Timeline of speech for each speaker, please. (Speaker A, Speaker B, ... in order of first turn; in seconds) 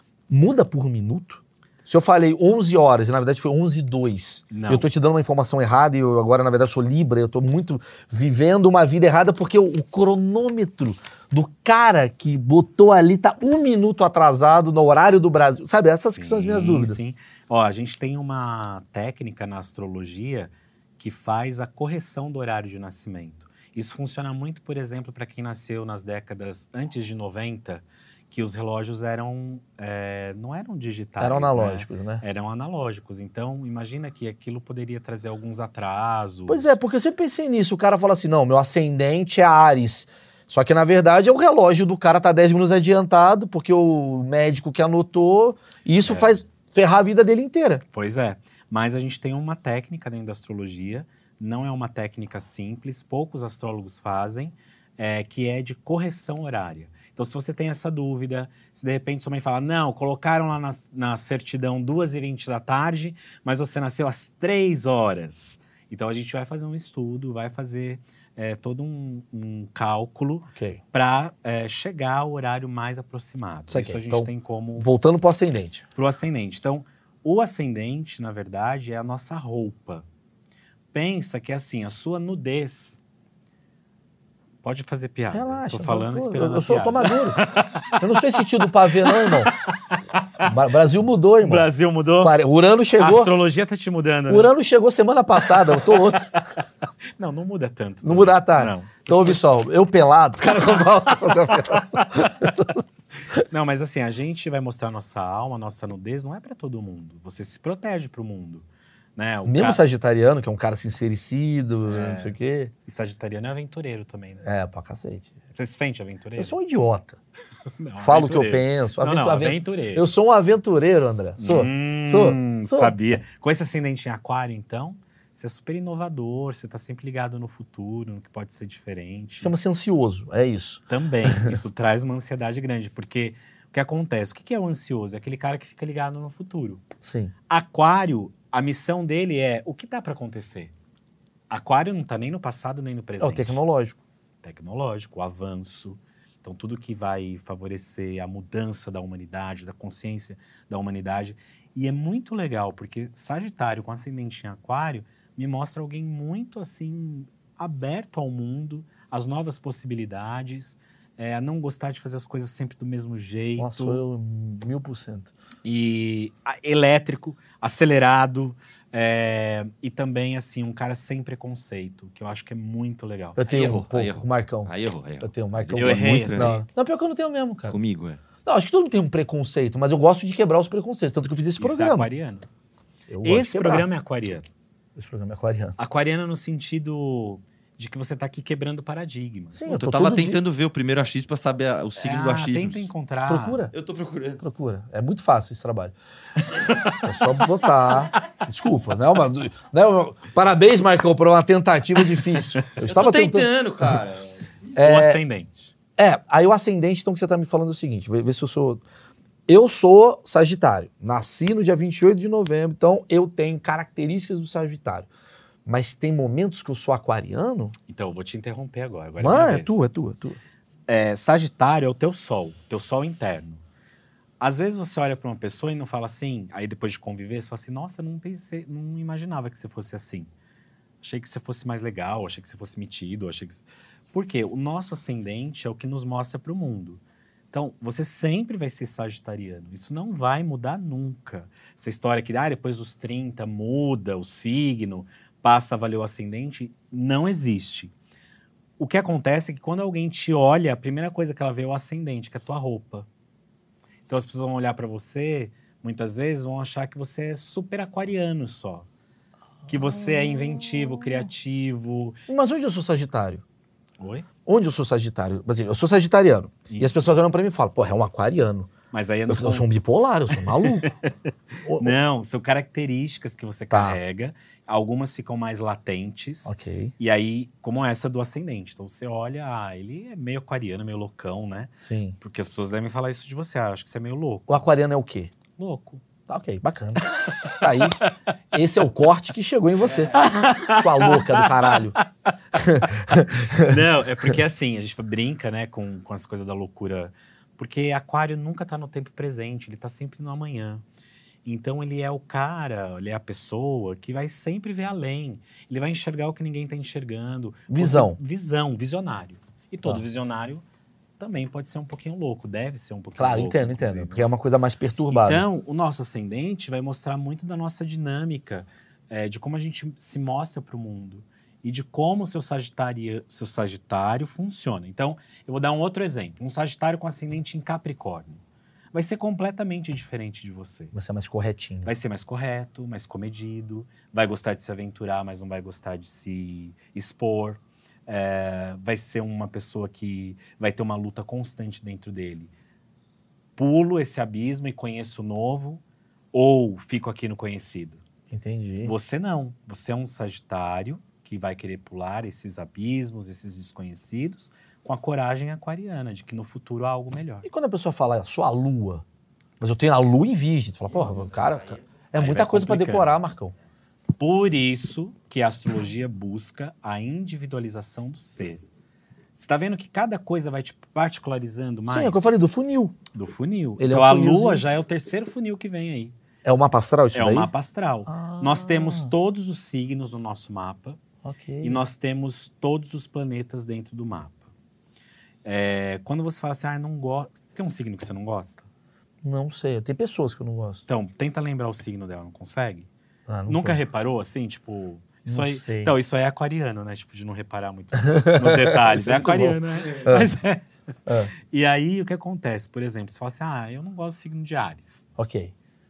Speaker A: 0.3-17.0, 31.2-32.2, 36.5-47.8, 70.5-70.8, 73.7-75.8, 85.3-87.4, 88.0-89.5, 90.4-91.7, 92.2-93.3, 94.3-96.3, 98.0-102.8, 109.5-112.7, 114.4-115.3, 116.4-117.2, 118.0-123.0, 129.4-131.6, 137.0-137.3, 143.2-144.0, 163.6-165.3, 173.4-177.8, 178.4-182.1, 183.1-183.9, 185.0-185.8, 189.5-190.4, 193.3-193.7, 194.4-196.0, 197.0-204.0, 204.8-205.2, 206.0-208.8, 209.5-215.1, 215.7-217.8, 219.2-220.4, 259.7-261.3, 262.3-263.4, 264.5-268.7, 269.3-270.9, 271.6-271.9, 273.7-274.0, 276.5-276.9, 281.8-282.2, 284.5-285.3, 286.3-292.0, 292.6-293.8, 307.7-308.2, 313.2-315.4, 330.9-331.9, 348.3-348.9, 357.4-359.0, 359.6-363.6, 371.9-373.0, 373.8-374.6, 376.4-377.5, 378.1-379.1, 381.2-381.8, 389.2-390.8, 393.3-393.8, 395.3-395.9, 398.1-400.3, 405.2-405.5
Speaker B: 4.5-4.9, 16.1-36.8, 46.0-46.4, 47.9-74.9, 76.0-80.1, 80.9-83.0, 84.6-88.4, 88.9-90.5, 91.4-92.4, 93.0-94.5, 95.6-96.4, 97.2-99.4, 102.0-102.3, 103.5-109.8, 111.8-114.4, 115.5-116.6, 117.8-120.1, 121.4-129.5, 130.9-136.8, 137.5-140.7, 141.5-143.6, 144.4-164.0, 165.7-173.4, 175.8-176.7, 181.6-182.5, 183.2-184.5, 185.8-189.7, 192.0-193.7, 196.5-197.1, 204.8-205.7, 217.9-219.8, 220.9-223.6, 224.4-230.3, 231.0-237.0, 237.5-247.9, 248.8-253.1, 254.1-258.9, 259.7-262.2, 264.0-264.3, 266.7-267.1, 268.9-269.7, 270.4-284.7, 285.6-286.0, 287.1-288.1, 289.8-292.0, 293.2-300.8, 301.4-310.6, 311.2-314.3, 315.1-328.4, 328.9-330.9, 331.8-342.5, 343.6-345.8, 346.3-348.0, 348.8-357.5, 362.1-363.1, 364.2-368.6, 369.4-372.2, 373.1-376.1, 377.1-381.0, 381.6-384.4, 385.4-388.7, 390.9-392.9, 393.5-400.7, 401.5-405.1
Speaker C: 173.4-176.5, 177.7-178.2, 189.7-192.9, 193.7-194.4, 202.9-204.5